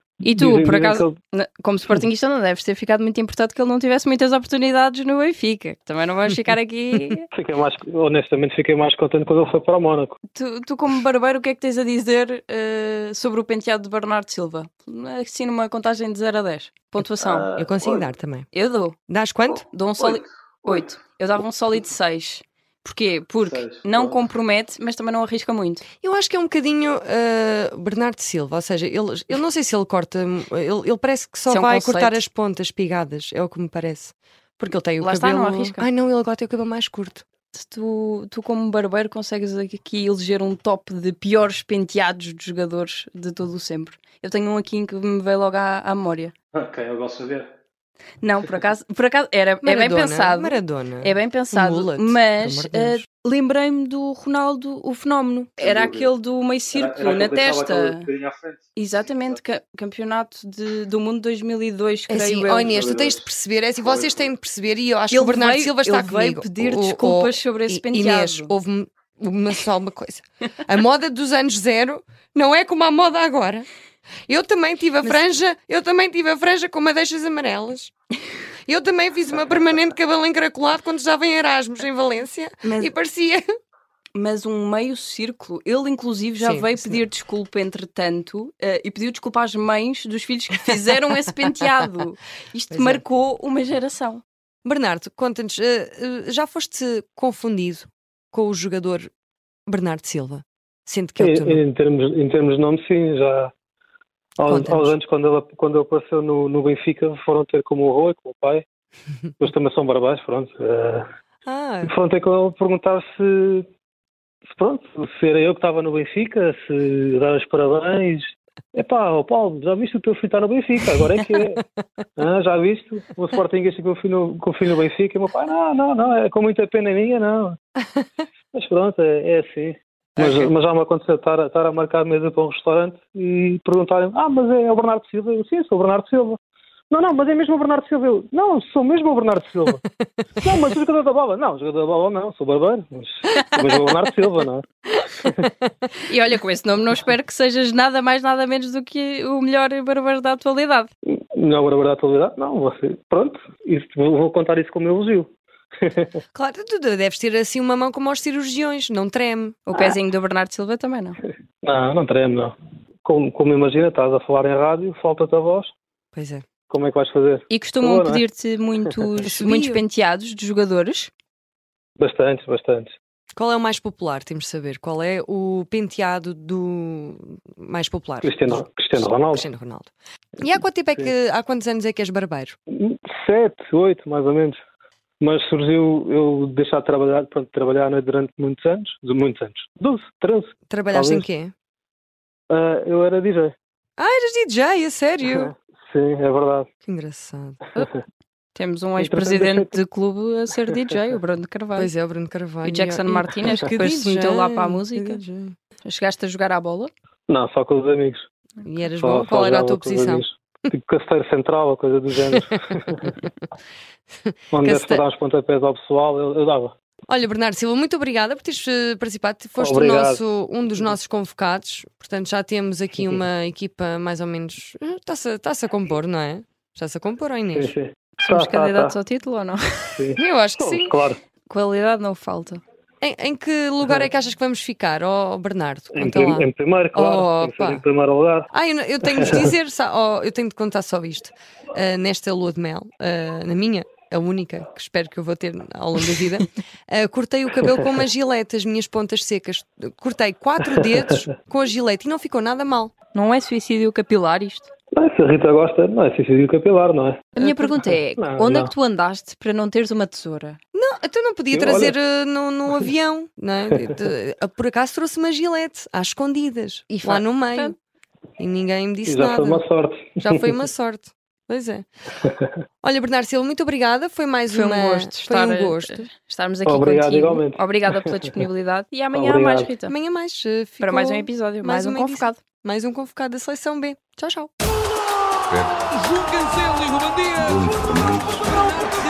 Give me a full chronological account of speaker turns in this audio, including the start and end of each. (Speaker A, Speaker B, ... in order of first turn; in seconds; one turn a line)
Speaker A: 0.2-7.2
Speaker B: 0.2-1.1
Speaker B: 7.3-10.1
Speaker A: 10.3-17.6
Speaker C: 17.6-18.5
Speaker A: 18.5-19.0
Speaker C: 19.1-19.6
Speaker A: 19.6-25.8
Speaker C: 26.0-37.2
Speaker A: 31.5-32.2
Speaker A: 35.0-35.8
Speaker A: 37.5-46.3
Speaker B: 46.6-47.4
Speaker A: 48.2-58.1
Speaker C: 49.6-53.0
Speaker B: 55.6-56.0
Speaker B: 56.7-58.6
Speaker A: 58.7-62.7
Speaker C: 62.1-73.7
Speaker B: 62.8-63.1
Speaker A: 65.1-68.5
Speaker C: 74.3-77.9
Speaker C: 78.7-83.5
Speaker A: 82.6-82.9
Speaker A: 84.2-94.2
Speaker C: 86.4-87.0
Speaker C: 92.7-93.0
Speaker C: 94.6-99.1
Speaker C: 99.7-101.6
Speaker B: 101.2-103.5
Speaker B: 104.4-108.6
Speaker C: 104.4-104.9
Speaker B: 109.4-111.0
Speaker C: 111.4-111.9
Speaker B: 111.8-113.7
Speaker B: 114.5-121.6
Speaker B: 122.2-127.6
Speaker B: 128.5-136.4
Speaker C: 130.2-130.5
Speaker B: 136.9-139.8
Speaker C: 140.1-140.4
Speaker B: 140.4-144.6
Speaker A: 146.1-150.9
Speaker B: 151.3-155.3
Speaker B: 155.8-156.1
Speaker C: 156.3-159.7
Speaker A: 159.7-161.2
Speaker B: 161.6-162.5
Speaker B: 163.0-165.7
Speaker C: 166.1-166.4
Speaker B: 166.7-168.2
Speaker A: 167.5-171.1
Speaker C: 169.2-169.8
Speaker B: 172.0-172.9
Speaker C: 173.3-182.6
Speaker B: 178.2-179.5
Speaker B: 182.7-184.6
Speaker B: 185.2-191.2
Speaker C: 190.7-191.5
Speaker B: 192.5-193.5
Speaker C: 194.0-195.5
Speaker B: 195.3-196.7
Speaker C: 196.8-197.8
Speaker A: 198.5-201.9
Speaker B: 199.0-199.8
Speaker C: 201.8-205.5
Speaker A: 202.6-205.2
Speaker A: 205.8-206.9
Speaker B: 207.3-208.2
Speaker C: 208.6-210.2
Speaker B: 208.9-213.1
Speaker C: 214.2-215.0
Speaker B: 214.5-216.7
Speaker C: 217.1-227.7
Speaker B: 219.6-220.2
Speaker B: 227.5-228.9
Speaker A: 228.2-230.0
Speaker B: 229.9-231.2
Speaker C: 230.2-231.0
Speaker A: 231.5-232.6
Speaker C: 233.0-237.8
Speaker B: 235.9-238.5
Speaker C: 238.5-252.9
Speaker B: 239.1-239.5
Speaker A: 253.1-254.7
Speaker B: 254.9-258.7
Speaker A: 257.4-260.6
Speaker C: 260.7-267.7
Speaker B: 261.5-261.9
Speaker A: 266.9-267.7
Speaker C: 268.4-269.6
Speaker B: 269.1-270.5
Speaker C: 270.2-271.9
Speaker B: 272.2-272.5
Speaker C: 272.8-276.1
Speaker A: 274.5-279.9
Speaker B: 276.6-278.3
Speaker B: 279.1-279.7
Speaker C: 279.9-284.5
Speaker A: 280.8-282.4
Speaker D: 285.5-288.5